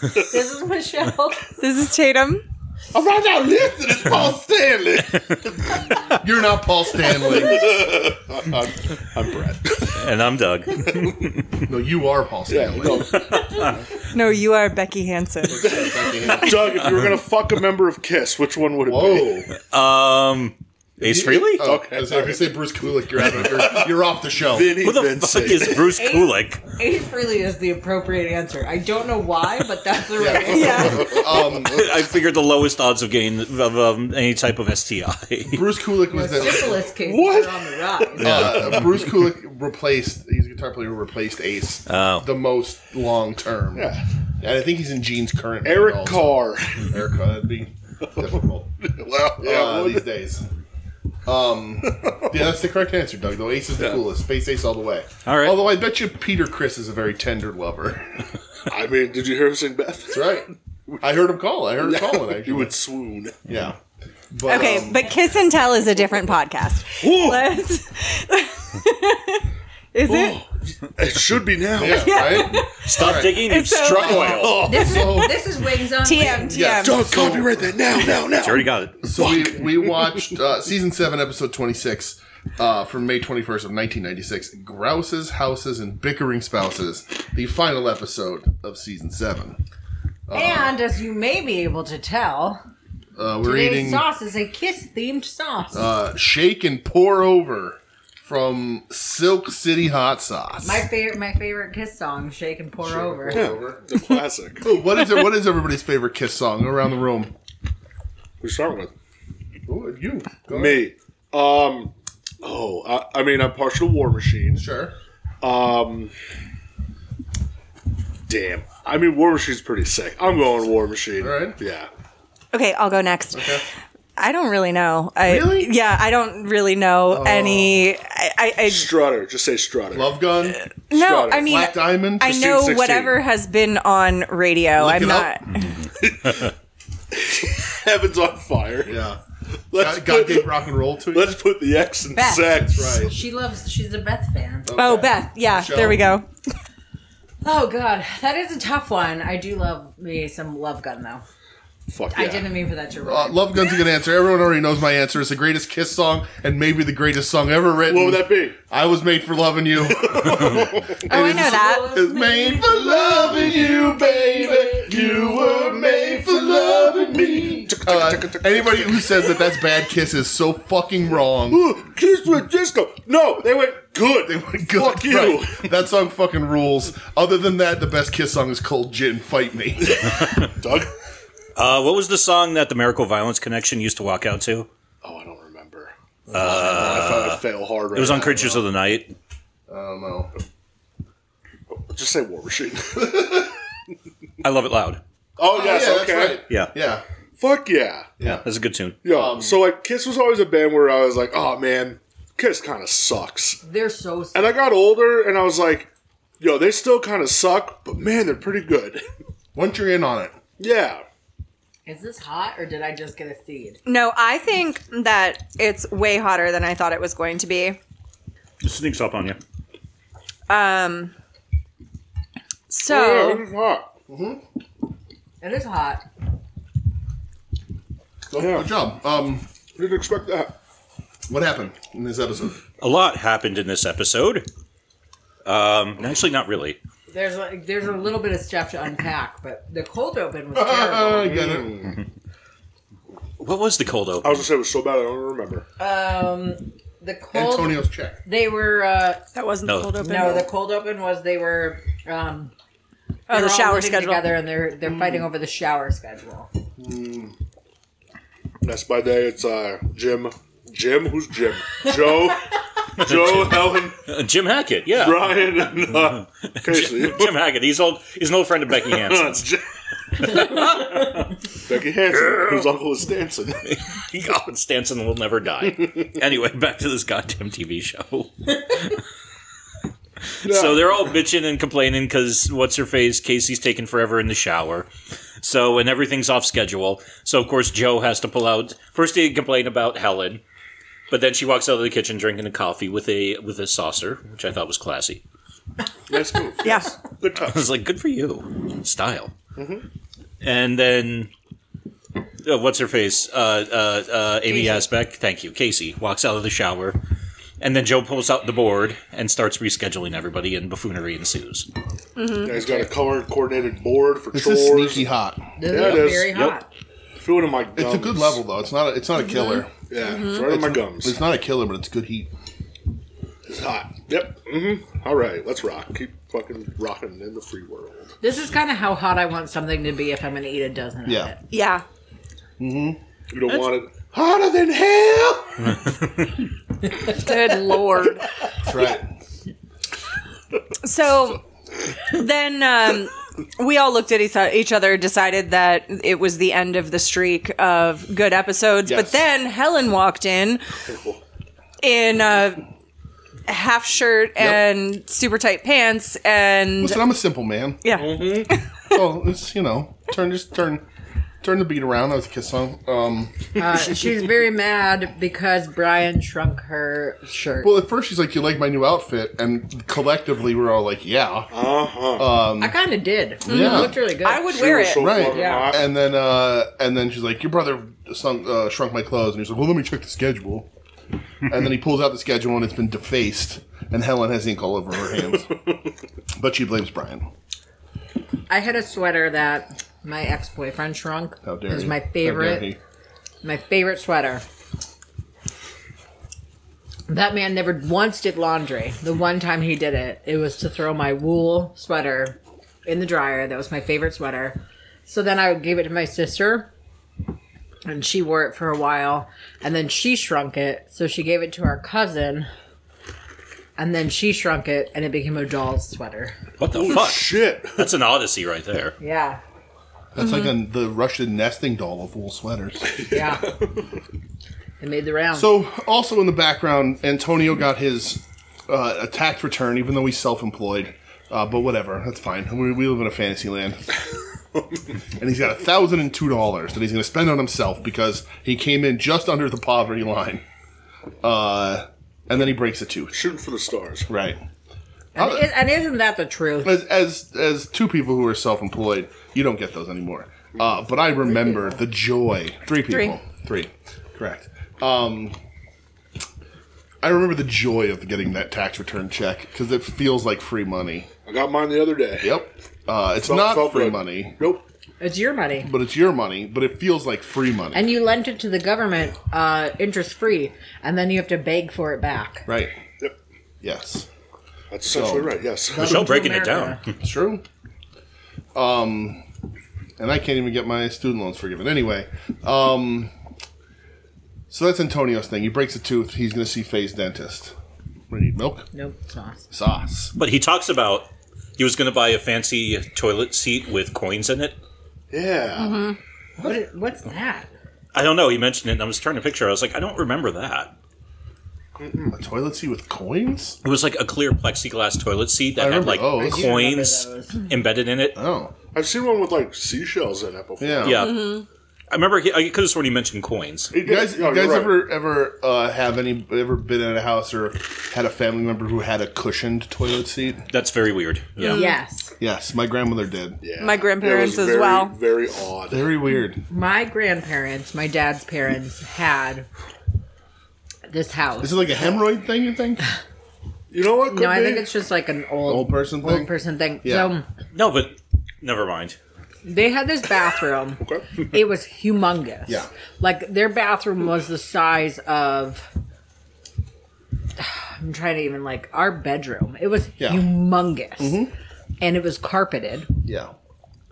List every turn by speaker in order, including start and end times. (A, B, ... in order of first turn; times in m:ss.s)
0:00.2-0:01.5 A
0:01.6-0:02.4 B
0:02.9-0:06.0 C
0:06.2-0:07.7 D
0:07.0-0:10.0 C
0:09.9-0:11.6 E
0:10.8-0:11.2 C
0:11.6-0:13.2 D
0:12.5-0:13.6 C
0:13.1-0:13.7 E
0:14.1-0:15.8 B
0:15.5-0:16.8 D
0:15.7-0:19.4 C
0:16.6-0:17.2 E
0:18.9-0:19.5 D
0:19.6-0:21.7 E
0:21.0-0:24.8 D
0:21.6-0:22.6 C
0:23.2-0:25.9 C
0:24.8-0:26.6 E
0:25.7-0:31.0 A
0:30.2-0:31.9 D
0:30.5-0:31.1 B
0:31.0-0:31.4 C
0:31.0-0:35.7 E
0:35.5-0:36.8 D
0:36.1-0:38.3 A
0:37.0-0:39.1 C
0:38.2-0:48.7 D
0:38.2-0:39.0 E
0:41.9-0:42.3 E
0:43.8-0:44.0 C
0:45.6-0:46.9 C
0:48.8-0:50.0 C
0:49.4-0:50.5 D
0:51.3-0:58.2 D
0:51.9-0:52.4 C
0:55.3-0:55.6 E
0:58.7-1:01.0 C
1:00.1-1:00.5 D
1:01.0-1:02.7 D
1:01.8-1:03.4 C
1:03.5-1:03.8 D
1:04.3-1:05.1 D
1:04.5-1:10.4 B
1:07.0-1:07.6 C
1:10.0-1:12.4 C
1:11.8-1:15.4 D
1:11.8-1:14.3 B
1:12.6-1:14.8 E
1:14.2-1:15.4 C
1:14.5-1:16.8 A
1:16.0-1:17.4 B
1:16.5-1:17.8 D
1:16.8-1:20.3 C
1:18.3-1:19.3 E
1:19.0-1:29.6 D
1:30.3-1:30.8 D
1:30.3-1:32.6 A
1:33.2-1:34.1 D
1:33.4-1:35.9 A
1:35.7-1:40.9 D
1:40.6-1:43.5 A
1:42.8-1:43.8 D
1:43.3-1:44.7 C
1:44.6-1:47.3 D
1:48.4-1:48.9 C
1:49.7-1:50.8 D
1:50.5-1:54.6 C
1:54.5-1:55.0 D
1:55.4-1:56.1 C
1:58.3-2:01.9 C
2:01.2-2:01.6 D
2:02.5-2:03.6 B
2:03.3-2:03.6 D
2:04.2-2:08.9 B
2:05.2-2:05.7 D
2:07.1-2:07.9 D
2:08.6-2:10.2 C
2:09.9-2:10.6 D
2:10.6-2:15.6 B
2:10.9-2:11.5 C
2:11.4-2:12.4 D
2:12.3-2:13.2 C
2:14.8-2:15.3 D
2:16.0-2:16.4 C
2:17.1-2:19.0 C
2:18.9-2:19.2 D
2:19.7-2:23.0 C
2:19.8-2:21.4 D
2:22.1-2:24.8 A
2:22.7-2:23.2 D
2:24.7-2:26.1 D
2:24.8-2:26.3 B
2:27.4-2:31.2 A
2:31.9-2:32.5 C
2:32.1-2:33.6 A
2:33.0-2:51.7 D
2:37.9-2:38.6 C
2:39.8-2:41.0 C
2:41.0-2:41.9 B
2:41.1-2:47.5 A
2:44.9-2:45.7 C
2:46.9-2:49.4 C
2:51.5-2:55.7 C
2:54.2-3:00.1 D
2:59.8-3:00.9 C
3:01.6-3:04.7 E
3:05.0-3:08.6 C
3:06.3-3:07.4 D
3:06.3-3:09.1 E
3:09.7-3:10.3 D
3:11.7-3:13.5 C
3:13.0-3:13.5 D
3:14.4-3:15.0 E
3:15.4-3:16.4 C
3:15.4-3:17.0 D
3:17.4-3:18.2 C
3:18.2-3:18.4 D
3:18.2-3:19.0 E
3:19.0-3:23.6 C
3:19.0-3:19.6 D
3:23.6-3:24.7 A
3:24.3-3:29.0 C
3:29.6-3:30.4 D
3:30.6-3:31.0 C
3:31.9-3:33.8 A
3:33.8-3:37.8 B
3:38.6-3:39.4 E
3:40.5-3:41.1 B
3:42.7-3:43.4 B
3:42.9-3:43.9 C
3:44.1-3:44.4 D
3:45.4-3:46.0 A
3:48.3-3:49.4 D
3:48.4-3:48.7 C
3:49.8-3:50.6 C
3:51.3-3:52.6 D
3:52.8-3:54.4 E
3:55.4-3:56.8 E
3:57.1-4:01.4 A
4:00.5-4:01.9 D
4:01.2-4:01.9 C
4:03.4-4:04.5 E
4:04.2-4:05.7 C
4:05.8-4:09.2 A
4:07.3-4:08.2 D
4:09.4-4:10.5 B
4:09.6-4:10.0 E
4:10.0-4:12.5 A
4:13.3-4:14.3 B
4:13.3-4:16.5 A
4:14.8-4:15.3 D
4:16.8-4:17.3 D
4:18.6-4:24.0 C
4:23.0-4:25.9 E
4:24.9-4:27.4 C
4:26.6-4:29.4 E
4:28.9-4:29.6 C
4:30.2-4:30.8 C
4:30.2-4:31.2 E
4:31.6-4:33.7 C
4:32.3-4:32.7 E
4:33.6-4:39.0 E
4:40.4-4:44.9 E
4:40.4-4:40.9 C
4:45.4-4:50.4 E
4:51.1-4:55.2 E
4:56.1-4:57.6 C
4:56.6-4:57.0 B
4:57.4-4:59.3 E
4:59.6-4:59.8 C
5:00.4-5:01.3 E
5:02.4-5:07.0 E
5:07.6-5:11.7 E
5:12.2-5:12.7 B
5:12.4-5:15.1 C
5:14.3-5:16.0 D
5:15.6-5:16.7 A
5:15.7-5:16.4 C
5:16.1-5:16.6 E
5:17.2-5:18.4 C
5:17.8-5:19.7 D
5:19.3-5:20.5 B
5:19.9-5:21.2 C
5:20.3-5:22.3 D
5:23.5-5:28.1 C
5:28.2-5:31.4 A
5:31.1-5:31.3 D
5:31.5-5:31.8 B
5:32.6-5:33.0 D
5:33.3-5:35.8 C
5:37.0-5:38.2 B
5:38.6-5:39.1 D
5:40.8-5:41.4 B
5:42.1-5:50.6 B
5:48.9-5:49.2 D
5:50.9-5:51.2 C
5:51.8-5:52.7 B
5:53.5-5:57.0 B
5:56.8-5:58.0 D
5:57.8-5:58.9 B
5:57.9-5:58.5 C
5:58.9-6:00.8 D
6:01.4-6:03.8 D
6:03.6-6:07.8 A
6:07.6-6:11.5 D
6:11.5-6:12.4 C
6:12.1-6:12.8 D
6:12.6-6:14.5 A
6:13.4-6:14.0 D
6:13.5-6:15.2 B
6:14.4-6:15.9 C
6:14.8-6:20.7 D
6:15.3-6:15.7 A
6:21.4-6:25.5 D
6:26.4-6:27.3 D
6:28.5-6:32.8 A
6:31.4-6:32.8 D
6:33.4-6:34.4 A
6:37.1-6:46.7 A
6:47.9-6:52.5 A
6:53.8-6:56.4 A
6:56.6-6:59.0 E
6:56.7-6:57.9 C
6:59.0-6:59.4 A
7:00.2-7:03.0 D
7:00.2-7:00.5 B
7:02.9-7:03.7 C
7:03.1-7:03.5 A
7:04.8-7:05.6 A
7:05.3-7:13.8 D
7:15.2-7:20.4 D
7:21.2-7:23.2 D
7:23.1-7:24.1 C
7:24.1-7:24.4 D
7:25.2-7:26.8 A
7:25.2-7:25.5 D
7:26.6-7:35.4 D
7:32.9-7:33.2 B
7:37.0-7:41.1 D
7:41.3-7:42.4 C
7:42.2-7:44.4 D
7:43.2-7:44.6 C
7:45.0-7:45.7 A
7:45.6-7:47.8 D
7:47.7-7:52.5 A
7:52.5-7:52.8 D
7:53.6-7:54.1 D
7:54.7-7:56.0 C
7:54.9-7:55.4 D
7:55.7-7:56.8 A
7:55.8-7:56.9 E
7:56.9-7:57.4 D
7:58.6-7:59.2 D
8:00.0-8:03.1 D
8:04.5-8:07.5 D
8:08.1-8:08.7 D
8:08.7-8:09.5 A
8:09.5-8:10.2 D
8:10.2-8:14.6 E
8:15.1-8:15.8 C
8:15.6-8:16.0 B
8:16.4-8:17.5 A
8:17.9-8:20.7 E
8:21.8-8:22.1 C
8:22.1-8:23.6 D
8:23.6-8:28.2 E
8:25.6-8:26.6 D
8:26.1-8:27.4 A
8:28.2-8:28.5 D
8:28.7-8:31.1 C
8:30.6-8:31.1 D
8:30.8-8:33.7 E
8:31.0-8:31.4 B
8:33.7-8:34.8 C
8:33.8-8:40.5 D
8:40.5-8:41.6 E
8:41.4-8:41.8 B
8:41.4-8:42.1 A
8:42.2-8:43.4 D
8:43.4-8:45.9 C
8:43.6-8:45.0 B
8:45.7-8:46.4 D
8:46.5-8:49.5 A
8:50.9-8:51.7 A
8:51.4-8:52.9 D
8:53.7-8:54.7 C
8:54.1-8:57.3 A
8:55.5-8:56.3 D
8:56.8-8:57.1 D
8:57.5-8:59.0 E
8:59.4-9:05.7 A
9:00.8-9:01.1 C
9:07.4-9:11.2 A
9:10.0-9:10.3 D
9:11.0-9:11.3 D
9:11.8-9:12.9 A
9:13.0-9:13.3 D